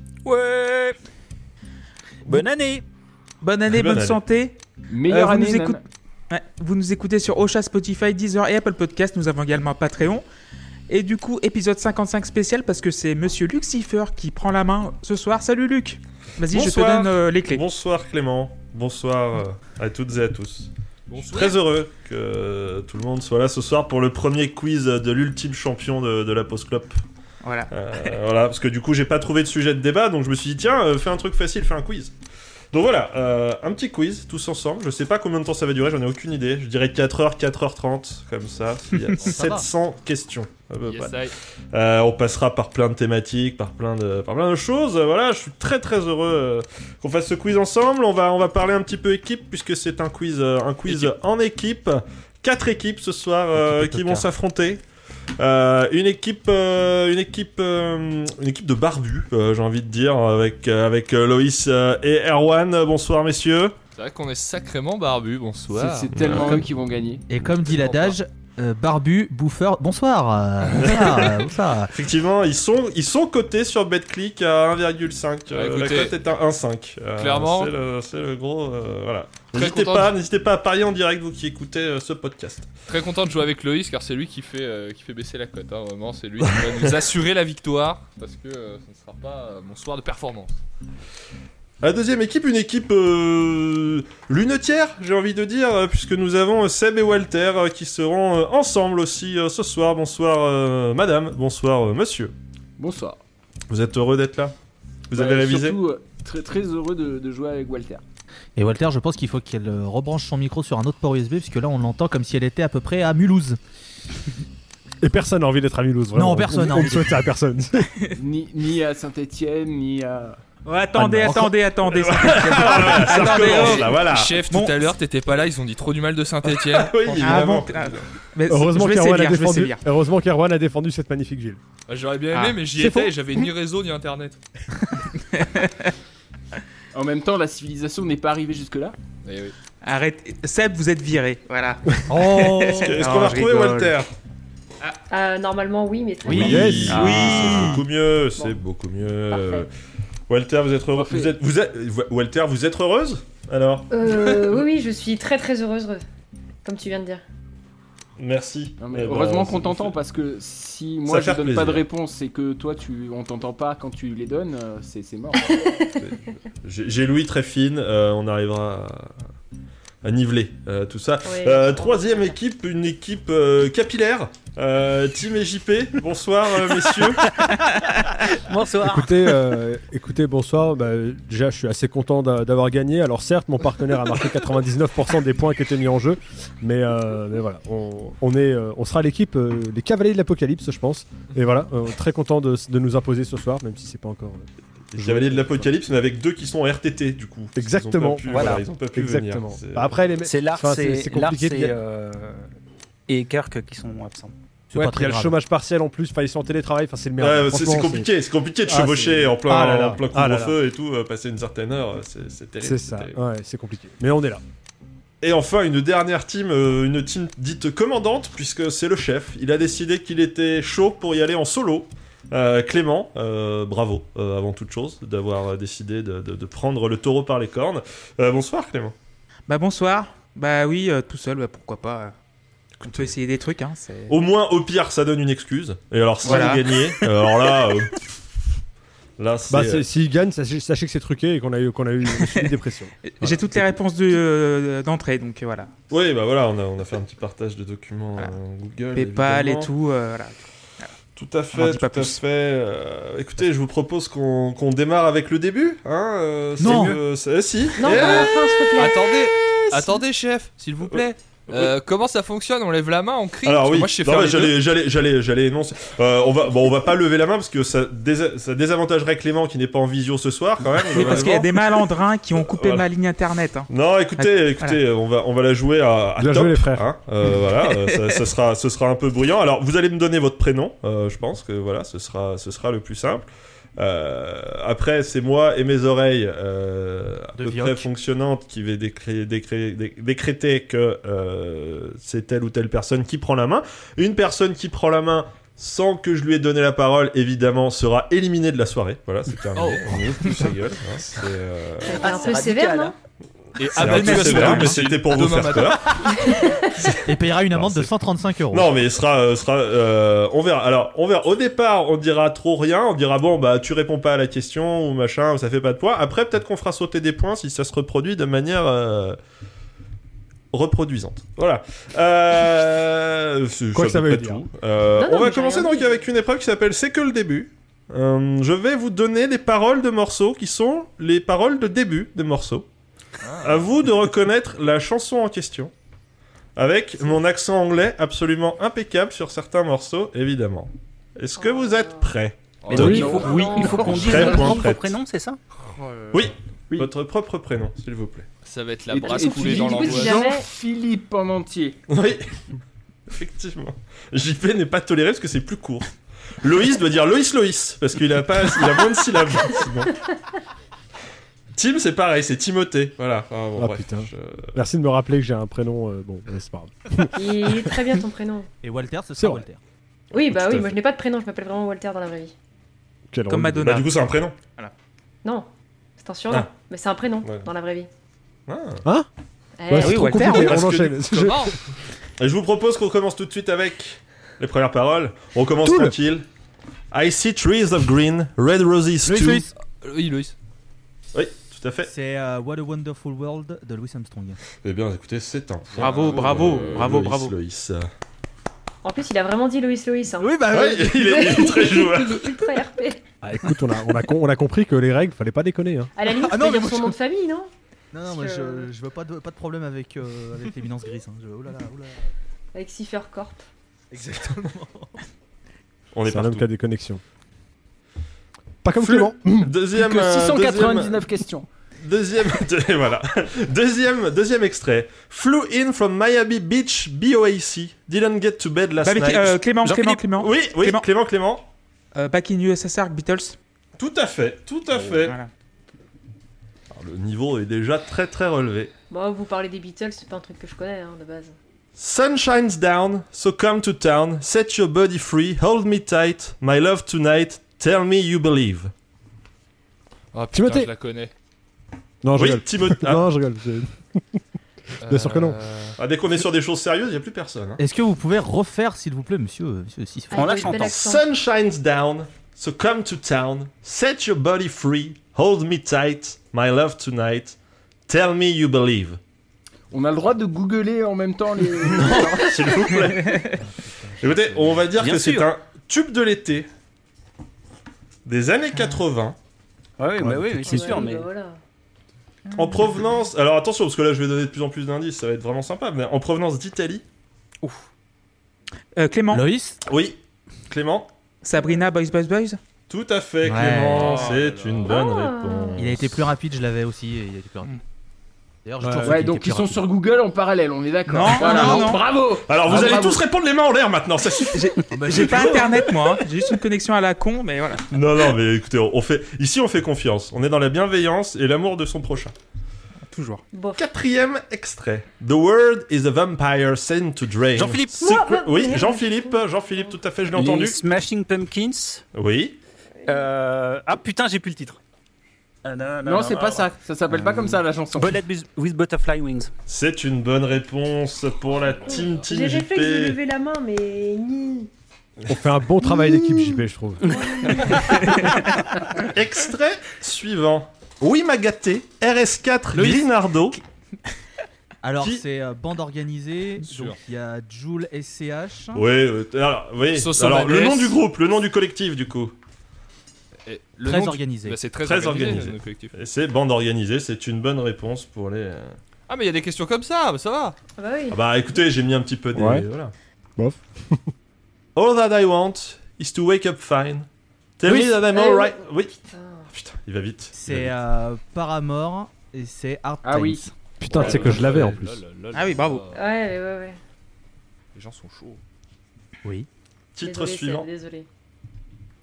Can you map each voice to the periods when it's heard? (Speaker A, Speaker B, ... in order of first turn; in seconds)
Speaker A: 0.2-1.0, 2.2-2.8, 178.3-179.5, 198.3-198.7, 200.2-202.5, 203.1-204.3, 301.9-302.9, 342.7-345.4, 460.1-460.7, 474.8-475.3, 479.8-481.1, 517.3-517.9, 520.1-521.8, 522.9-524.6, 525.4-526.5, 527.7-529.3
Speaker B: 3.4-10.2, 10.9-17.6, 27.4-28.1, 120.6-124.8, 127.2-129.8, 132.3-132.6, 135.2-135.7, 139.8-143.9, 146.9-147.8, 177.4-177.9, 229.5-232.1, 232.8-234.1, 236.2-237.5, 243.0-245.7, 248.9-250.9, 251.5-252.2, 256.6-256.9, 270.8-274.8, 277.7-278.0, 303.8-304.9, 373.3-373.9, 379.7-380.6, 395.8-397.3, 428.8-430.9, 431.9-433.4, 434.8-435.3, 472.9-473.3, 482.3-482.6, 488.7-489.2, 491.2-492.4, 500.9-501.9, 504.3-507.6, 512.9-513.2, 537.7-538.1, 542.5-542.9, 575.1-575.6
Speaker C: 3.7-4.2, 16.5-27.0, 27.7-32.1, 32.7-54.8, 55.4-63.7, 66.1-66.6, 70.8-82.7, 86.6-87.0, 91.8-102.3, 103.7-104.5, 105.1-105.8, 121.8-124.4, 126.4-128.1, 142.8-144.1, 146.3-149.7, 150.3-154.6, 158.2-159.9, 161.1-161.9, 166.0-169.1, 170.0-177.4, 194.9-200.0, 207.2-213.2, 215.2-228.9, 232.8-233.1, 234.1-238.0, 239.2-239.8, 245.9-249.7, 251.2-260.0, 260.9-261.7, 263.4-271.8, 272.4-272.9, 273.7-302.0, 303.7-307.9, 308.5-319.2, 320.5-332.7, 333.4-335.7, 336.6-343.3, 343.9-344.9, 346.1-348.3, 351.9-352.3, 353.1-359.9, 361.5-364.5, 373.6-374.4, 378.5-378.9, 380.3-381.3, 382.2-386.2, 386.9-389.5, 391.1-391.9, 394.6-397.9, 400.5-402.4, 415.9-416.5, 418.8-421.1, 421.8-431.4, 433.8-435.2, 436.7-438.7, 441.8-448.7, 452.1-453.1, 455.8-457.6, 460.4-469.0, 471.6-473.4, 474.0-476.5, 478.0-479.2, 482.3-486.8, 489.6-490.9, 492.7-496.0, 502.2-506.0, 507.7-512.1, 513.6-520.6, 521.9-522.4, 529.5-533.0, 538.8-543.4, 548.5-552.1, 554.6-558.5, 560.9-562.7, 564.5-566.9, 567.4-568.8, 569.3-570.5, 579.8-580.5
Speaker D: 4.9-5.8, 65.7-67.2, 102.8-103.2, 105.1-108.0, 118.2-120.4, 136.9-138.9, 150.9-151.3, 158.8-165.6, 342.7-344.6, 348.9-351.8, 419.7-421.5, 469.7-472.5, 498.8-503.0, 525.8-528.0, 572.8-573.2, 573.8-574.1
Speaker E: 21.1-21.6, 40.8-41.3, 50.9-51.1, 64.0-66.6, 67.7-68.1, 75.5-76.1, 77.2-77.7, 79.5-80.1, 82.9-90.6, 122.4-127.5, 131.9-134.4, 139.2-139.6, 146.9-147.7, 257.9-264.6, 299.5-300.4, 303.6-306.4, 333.2-333.6, 342.6-343.3, 345.8-346.2, 348.4-350.3, 381.1-381.5, 389.8-390.3, 395.8-396.9, 450.1-451.1, 454.8-455.8, 493.6-494.8, 531.4-532.0, 546.5-546.8, 549.7-550.8, 553.2-555.7, 558.9-560.4, 573.7-575.8, 577.5-578.2
Speaker F: 39.2-39.6, 53.5-54.3, 67.3-71.9, 108.5-113.6, 116.1-117.2, 120.9-121.5, 142.1-142.9, 146.3-146.7, 204.7-205.4, 256.6-257.0, 287.4-287.9, 307.0-308.7, 368.6-369.6, 389.1-389.5, 391.9-394.4, 400.2-401.2, 406.1-406.9, 407.9-412.1, 413.9-414.9, 457.6-460.3, 489.1-489.6, 493.2-494.1, 495.6-497.6, 498.4-499.6, 504.7-505.4, 544.6-548.6, 553.6-554.4, 570.1-573.3
Speaker G: 115.0-117.9, 128.5-131.6, 132.7-133.1, 142.1-142.8, 146.3-147.1, 178.8-195.7, 197.6-201.8, 204.7-208.1, 208.6-210.6, 212.6-214.4, 239.5-243.5, 276.2-276.9, 323.7-324.4, 342.7-343.1, 363.5-367.7, 369.2-369.4, 370.3-370.7, 373.1-373.7, 379.7-381.6, 385.6-386.0, 403.2-405.9, 416.1-417.0, 418.6-419.5, 450.3-450.7, 452.0-454.1, 454.8-455.4, 480.0-480.7, 498.6-499.1, 535.1-536.9, 562.1-562.5, 563.2-563.8, 573.6-574.8
Speaker H: 145.1-147.1, 149.3-149.7, 153.9-156.0, 156.6-157.2, 165.4-166.1, 171.2-172.3, 257.8-259.1, 301.8-302.9, 306.2-306.7, 324.9-326.1, 341.4-342.1, 343.0-344.6, 349.0-350.4, 367.1-368.5, 370.1-372.3, 375.2-377.9, 379.6-380.4, 398.8-403.0, 405.9-407.5, 408.1-408.7, 412.5-413.4, 438.9-441.4, 460.1-461.1, 480.4-481.4, 494.6-495.6, 513.3-513.6, 517.8-519.7, 531.7-534.5, 536.9-538.1, 560.6-561.0, 567.9-569.3, 575.7-576.6, 579.8-580.9